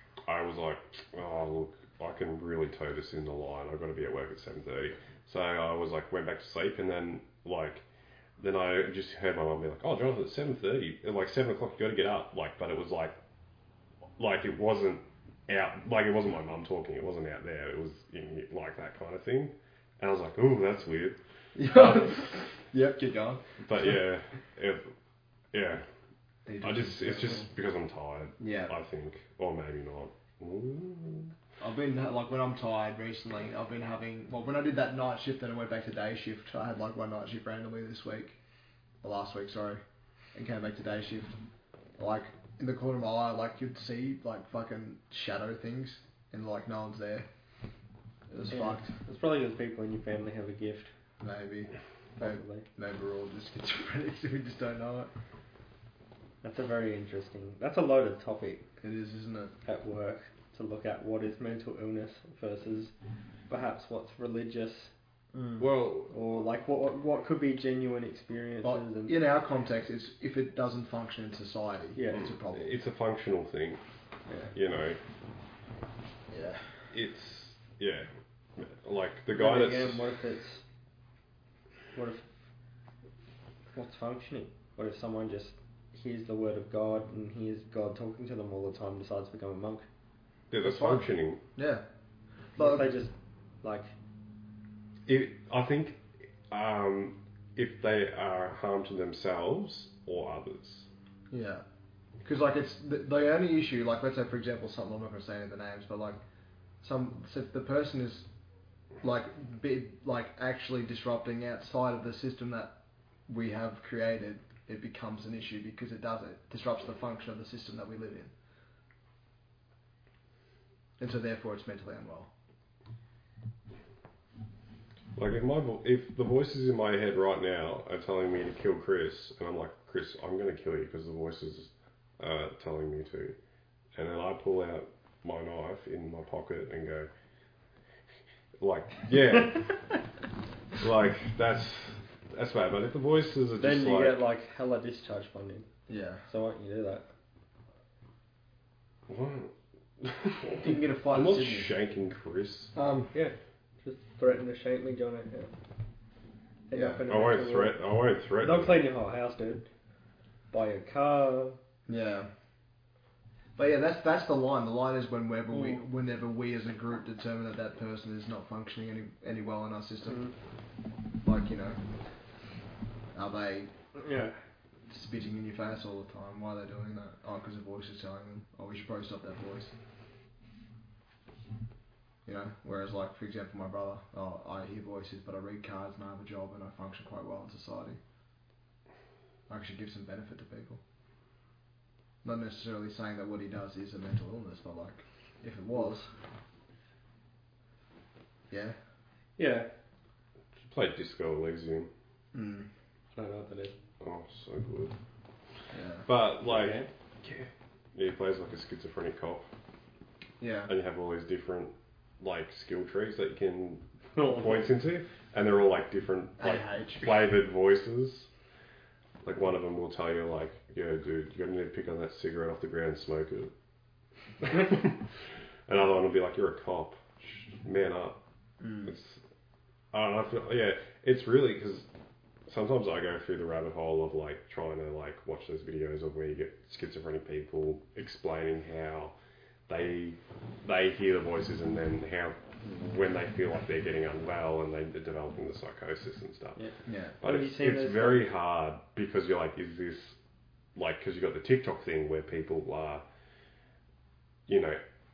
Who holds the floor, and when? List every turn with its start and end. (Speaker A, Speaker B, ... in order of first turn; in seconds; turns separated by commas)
Speaker A: 0.3-7.8, Speaker A: 8.4-13.2, Speaker A: 14.2-22.4, Speaker B: 21.6-23.9, Speaker A: 23.6-24.9, Speaker A: 25.5-25.8, Speaker B: 26.5-27.5, Speaker A: 26.6-31.3, Speaker B: 28.4-28.7, Speaker B: 31.6-38.4, Speaker B: 39.0-39.8, Speaker B: 40.3-41.4, Speaker B: 42.0-47.3, Speaker B: 48.3-48.9, Speaker C: 48.5-50.9, Speaker B: 51.2-55.1, Speaker C: 52.2-52.7, Speaker C: 56.4-58.6, Speaker B: 58.8-59.5, Speaker C: 59.7-62.9, Speaker C: 63.5-64.9, Speaker A: 65.6-66.1, Speaker C: 66.1-69.2, Speaker B: 68.6-72.7, Speaker C: 72.0-72.3, Speaker A: 72.1-73.8, Speaker C: 74.3-74.5, Speaker A: 74.5-75.0, Speaker B: 76.3-76.9, Speaker A: 76.9-80.1, Speaker C: 79.3-80.6, Speaker C: 81.9-82.3, Speaker C: 83.7-89.8, Speaker A: 90.5-91.4, Speaker B: 90.6-91.8, Speaker B: 92.6-92.9, Speaker C: 92.6-93.9, Speaker A: 95.1-100.9, Speaker B: 101.3-101.7, Speaker B: 102.2-106.2, Speaker B: 106.8-108.3, Speaker B: 109.0-112.8, Speaker B: 113.3-118.3, Speaker B: 121.0-122.3, Speaker A: 125.2-133.4, Speaker A: 133.9-137.1, Speaker A: 138.6-139.8, Speaker A: 140.8-144.2, Speaker C: 143.6-145.7, Speaker B: 145.9-146.2, Speaker C: 146.3-147.1, Speaker A: 149.1-152.7, Speaker B: 150.4-151.7, Speaker B: 152.7-153.1, Speaker C: 153.1-155.5, Speaker C: 156.7-157.8, Speaker B: 156.7-157.0, Speaker A: 157.1-158.8, Speaker C: 158.4-159.7, Speaker C: 160.5-161.6, Speaker B: 161.9-162.3, Speaker B: 163.6-170.2, Speaker C: 165.5-165.8, Speaker C: 170.1-170.3, Speaker B: 171.2-171.8, Speaker B: 173.1-173.7, Speaker C: 173.9-174.4, Speaker B: 174.9-179.7, Speaker B: 182.2-188.0, Speaker B: 189.5-190.8, Speaker B: 192.2-196.1, Speaker C: 195.7-196.1, Speaker B: 198.5-198.8, Speaker C: 199.4-199.7, Speaker A: 200.7-201.9, Speaker B: 202.3-202.7, Speaker C: 203.2-203.8, Speaker A: 204.0-204.9, Speaker B: 205.7-206.1, Speaker A: 206.1-209.5, Speaker C: 206.4-206.9, Speaker B: 210.4-210.7, Speaker A: 210.7-218.3, Speaker C: 214.2-214.7, Speaker B: 216.4-217.2, Speaker A: 219.2-223.5, Speaker A: 224.4-228.2, Speaker B: 228.6-228.9, Speaker A: 228.8-229.2, Speaker A: 229.9-231.9, Speaker A: 232.5-239.2, Speaker A: 239.7-246.6, Speaker C: 246.6-248.3, Speaker B: 246.9-247.2, Speaker A: 247.2-250.2, Speaker A: 250.8-253.0, Speaker A: 254.5-254.8